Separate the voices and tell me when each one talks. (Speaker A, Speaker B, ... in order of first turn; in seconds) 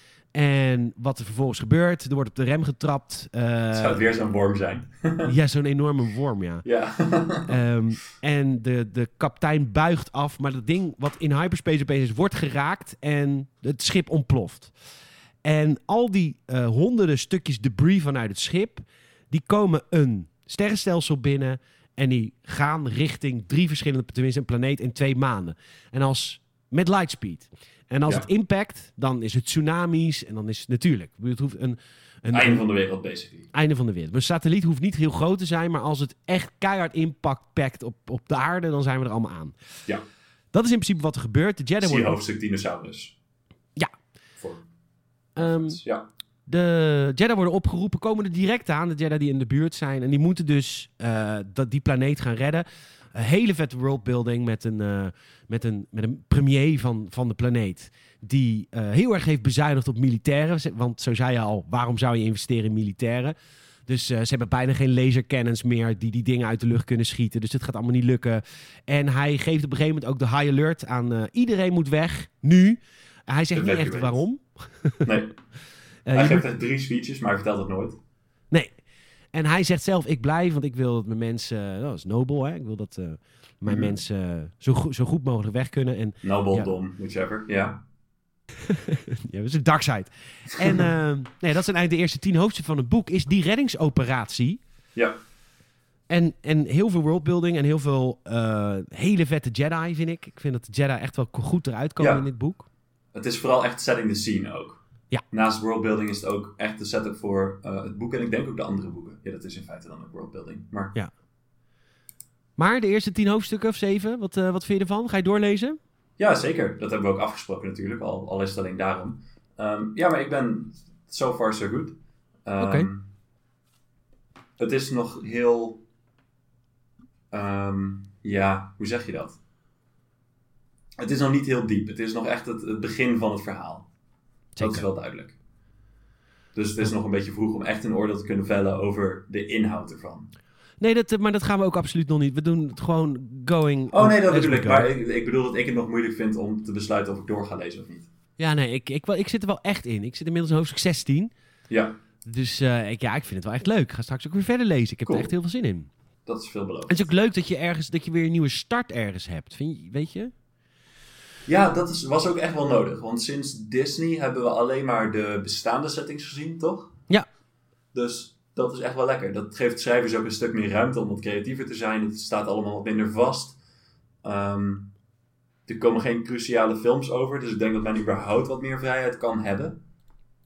Speaker A: 0.3-4.0, 5.2-6.7, 7.5-14.7, 15.4-32.6, 33.5-39.6, 40.5-42.2, 45.4-45.8, 46.5-63.4, 63.9-75.1, 76.1-76.4, 79.3-86.7, 88.6-94.6, 96.1-102.7, 112.6-115.8, 122.6-122.9, 134.6-134.8, 140.8-144.9, 148.4-151.3, 152.2-155.9, 156.9-160.3
Speaker B: 3.7-5.3, 6.7-7.5, 32.3-33.5, 41.8-43.1, 45.4-46.0, 73.5-74.2, 75.0-75.3, 76.1-78.0, 83.7-83.9, 86.2-87.8, 102.0-102.2, 103.1-110.9, 116.2-123.0, 124.6-125.8, 127.3-129.4, 131.0-133.9, 134.6-135.3, 136.6-140.3, 143.9-148.1, 155.1-155.3, 156.3-157.1, 161.5-166.9, 167.9-173.6, 174.2-174.9, 175.7-179.8